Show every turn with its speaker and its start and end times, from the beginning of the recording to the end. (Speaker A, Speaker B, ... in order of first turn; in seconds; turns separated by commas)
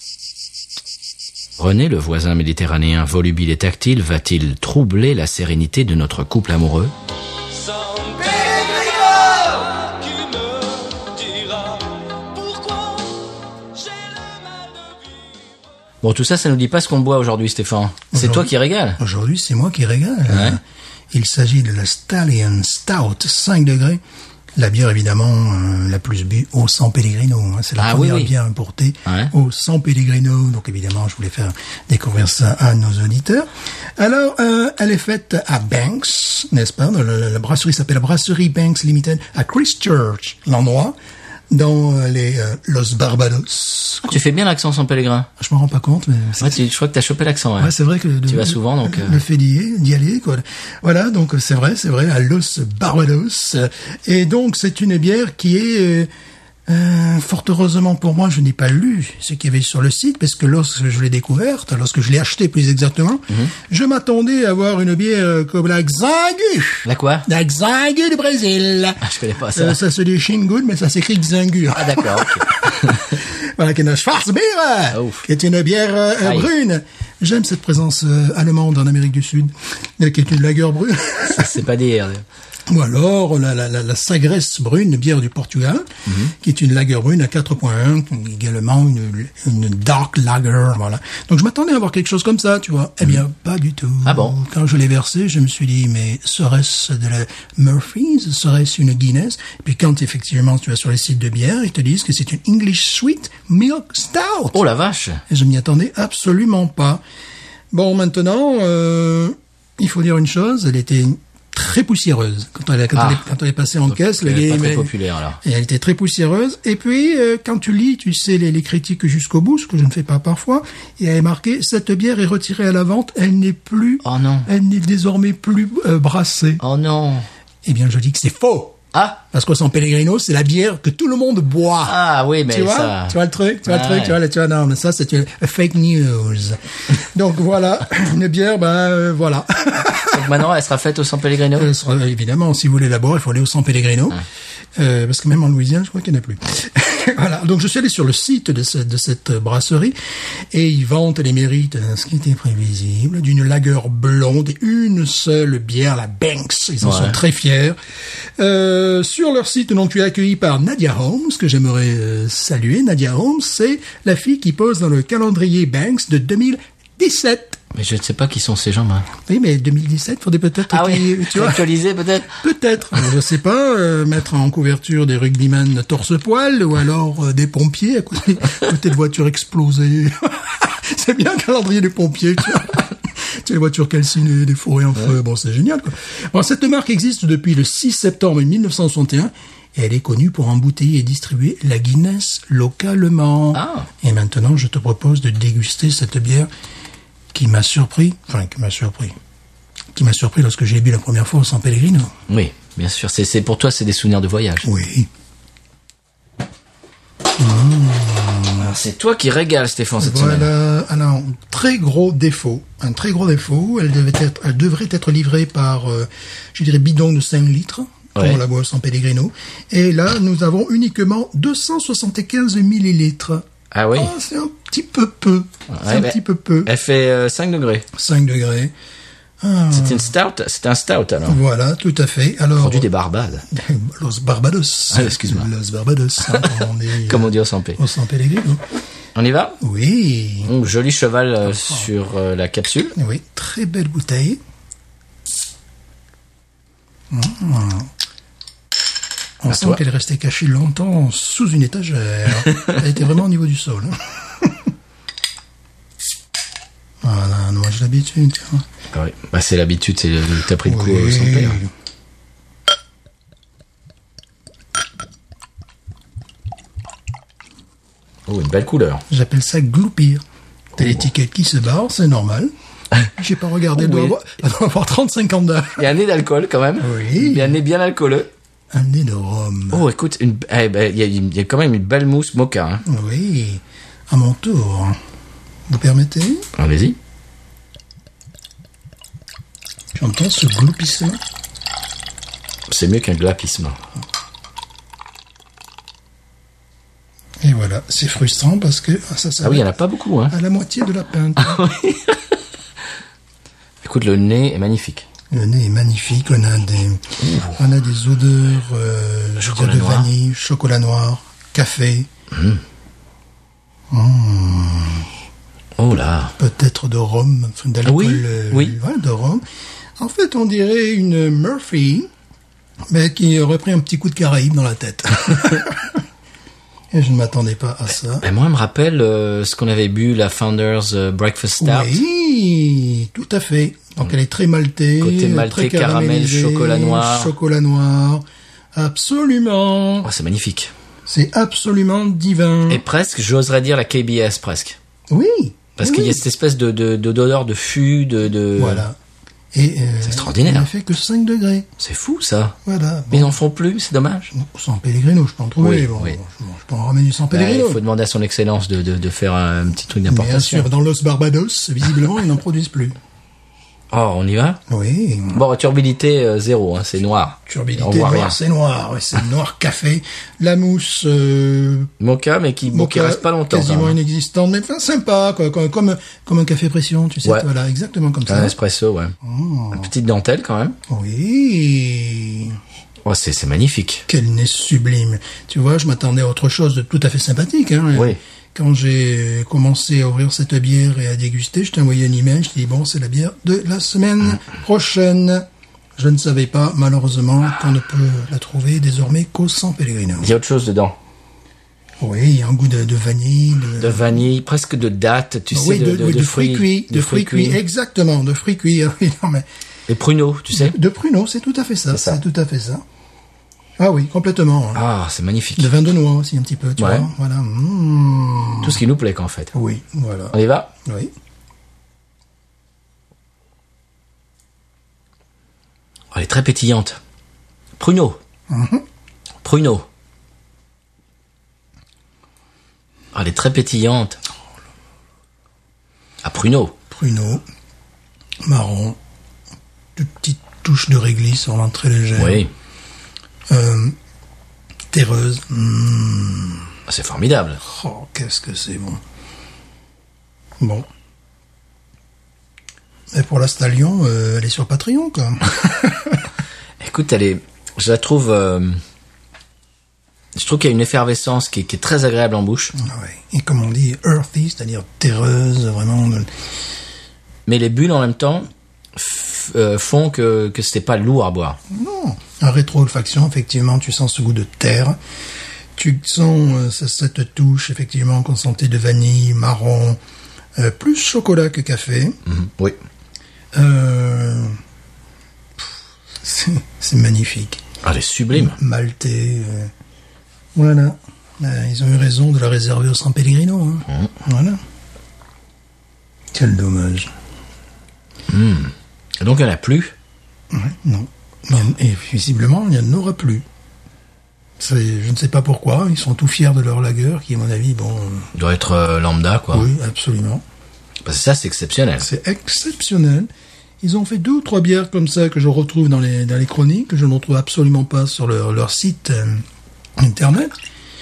Speaker A: 1.6-6.9, Speaker B: 7.6-13.1, Speaker B: 13.8-15.2, Speaker A: 16.0-19.0, Speaker C: 18.1-24.0, Speaker A: 20.3-20.6, Speaker C: 24.6-41.0, Speaker A: 27.8-28.3, Speaker A: 29.1-29.3, Speaker C: 41.5-44.2, Speaker A: 44.0-45.3, Speaker C: 45.4-46.6, Speaker A: 46.4-47.7, Speaker C: 47.6-56.1, Speaker A: 48.3-49.2, Speaker C: 56.7-69.0, Speaker A: 66.8-67.3, Speaker A: 69.0-69.8, Speaker C: 69.5-81.6, Speaker A: 71.7-73.1, Speaker A: 74.9-75.2, Speaker A: 76.2-76.5, Speaker A: 81.3-82.2, Speaker C: 82.7-104.6, Speaker A: 86.1-86.3, Speaker A: 94.0-94.4, Speaker A: 104.5-105.2, Speaker C: 105.3-107.0, Speaker C: 107.7-126.6, Speaker A: 112.9-113.2, Speaker A: 113.9-115.4, Speaker A: 124.0-124.5, Speaker A: 126.6-127.2, Speaker C: 127.6-128.8, Speaker A: 128.9-129.2, Speaker C: 129.3-140.4, Speaker A: 131.8-134.2, Speaker A: 140.1-141.7, Speaker C: 141.6-144.2, Speaker C: 144.8-149.9, Speaker C: 150.5-157.8, Speaker A: 156.8-157.2, Speaker C: 158.4-167.6, Speaker A: 167.7-169.1, Speaker C: 169.2-171.6, Speaker A: 170.7-172.3, Speaker C: 172.4-196.5, Speaker A: 193.5-193.9, Speaker C: 197.3-199.2, Speaker C: 199.9-202.1, Speaker A: 202.3-204.7, Speaker C: 204.6-205.1, Speaker C: 207.4-208.7, Speaker A: 208.6-210.5, Speaker C: 210.0-226.7, Speaker A: 218.2-218.4, Speaker A: 223.7-224.1, Speaker A: 225.7-227.8, Speaker C: 227.9-228.7, Speaker C: 229.4-230.1, Speaker A: 229.7-231.4, Speaker C: 231.3-232.9, Speaker A: 232.6-233.4, Speaker C: 233.5-238.6, Speaker A: 234.9-235.5, Speaker A: 236.2-236.5, Speaker A: 237.1-237.8, Speaker A: 239.2-239.6, Speaker C: 239.6-240.5, Speaker A: 240.4-242.9, Speaker C: 241.5-241.9, Speaker C: 242.9-244.4, Speaker C: 247.1-247.9, Speaker C: 249.4-254.7, Speaker A: 249.5-249.8, Speaker C: 257.0-258.6, Speaker A: 258.9-261.6, Speaker C: 260.6-261.7, Speaker A: 268.3-269.0, Speaker C: 269.1-270.2, Speaker C: 270.8-272.5, Speaker C: 273.1-275.8, Speaker A: 273.8-274.2, Speaker A: 275.8-278.3, Speaker C: 276.8-277.6, Speaker C: 278.7-279.8, Speaker A: 279.7-282.8, Speaker C: 282.9-285.0, Speaker C: 285.7-286.4, Speaker A: 286.6-287.0, Speaker C: 289.9-291.2, Speaker A: 292.7-293.8, Speaker C: 297.4-299.7, Speaker A: 299.4-300.3, Speaker C: 300.3-301.6, Speaker A: 301.4-302.2, Speaker A: 303.8-305.1, Speaker C: 305.3-312.1, Speaker A: 307.2-307.6, Speaker A: 309.4-310.1, Speaker A: 312.3-312.6, Speaker C: 313.9-315.1, Speaker A: 315.8-316.3, Speaker C: 316.4-319.4, Speaker A: 317.8-318.7, Speaker C: 320.0-322.1, Speaker C: 322.9-326.0, Speaker C: 326.9-328.2, Speaker A: 328.2-332.0, Speaker C: 331.6-340.1, Speaker A: 335.0-337.3, Speaker A: 340.0-340.7, Speaker C: 341.1-342.8, Speaker A: 342.7-344.8, Speaker C: 345.1-346.2, Speaker A: 345.8-348.8, Speaker C: 348.6-348.9, Speaker C: 349.5-351.7, Speaker A: 350.0-350.7, Speaker A: 351.8-352.6, Speaker C: 352.6-353.4, Speaker A: 353.1-354.3, Speaker C: 354.3-357.8, Speaker A: 355.6-356.2, Speaker A: 357.3-360.7, Speaker C: 360.1-362.9, Speaker A: 363.9-364.6, Speaker C: 364.7-365.4, Speaker A: 365.3-368.4, Speaker C: 367.4-371.9, Speaker A: 372.0-374.0, Speaker C: 372.7-378.6, Speaker A: 378.3-379.1, Speaker C: 379.2-379.9, Speaker A: 379.7-380.8, Speaker C: 380.9-382.6, Speaker A: 383.1-384.1, Speaker C: 384.1-395.4, Speaker C: 396.0-400.3, Speaker A: 400.2-400.9, Speaker C: 402.0-404.2, Speaker A: 403.8-407.6, Speaker C: 405.5-409.4, Speaker A: 409.9-410.8, Speaker C: 410.5-412.8, Speaker A: 411.9-412.2, Speaker C: 413.8-414.8, Speaker A: 414.7-415.7, Speaker C: 415.6-418.8, Speaker A: 416.8-417.1, Speaker A: 418.6-419.5, Speaker C: 419.5-421.1, Speaker A: 420.3-420.7, Speaker A: 426.1-427.0, Speaker A: 427.8-428.2, Speaker C: 428.5-428.8, Speaker A: 429.4-429.8, Speaker A: 433.1-434.2, Speaker A: 436.2-436.7, Speaker C: 436.9-437.4, Speaker C: 438.4-439.0, Speaker C: 439.9-442.4, Speaker A: 442.2-442.5, Speaker C: 443.5-443.9, Speaker C: 444.9-446.7, Speaker A: 446.9-447.6, Speaker C: 447.6-449.0, Speaker C: 450.6-450.9, Speaker C: 453.1-456.2, Speaker A: 456.8-458.8, Speaker A: 460.3-462.7, Speaker C: 462.8-466.3, Speaker A: 467.4-471.6, Speaker C: 471.7-475.0, Speaker C: 475.7-480.0, Speaker C: 480.6-482.2, Speaker A: 482.3-482.8, Speaker C: 483.5-484.6, Speaker C: 486.2-487.6, Speaker A: 487.8-488.6, Speaker C: 488.3-489.7, Speaker C: 490.6-494.6, Speaker C: 496.3-497.1, Speaker A: 498.3-499.9, Speaker C: 500.5-503.4, Speaker C: 504.6-508.3, Speaker A: 508.3-509.7, Speaker C: 509.5-510.4, Speaker A: 511.1-512.1, Speaker C: 512.0-513.3, Speaker C: 513.8-519.4, Speaker C: 520.0-520.5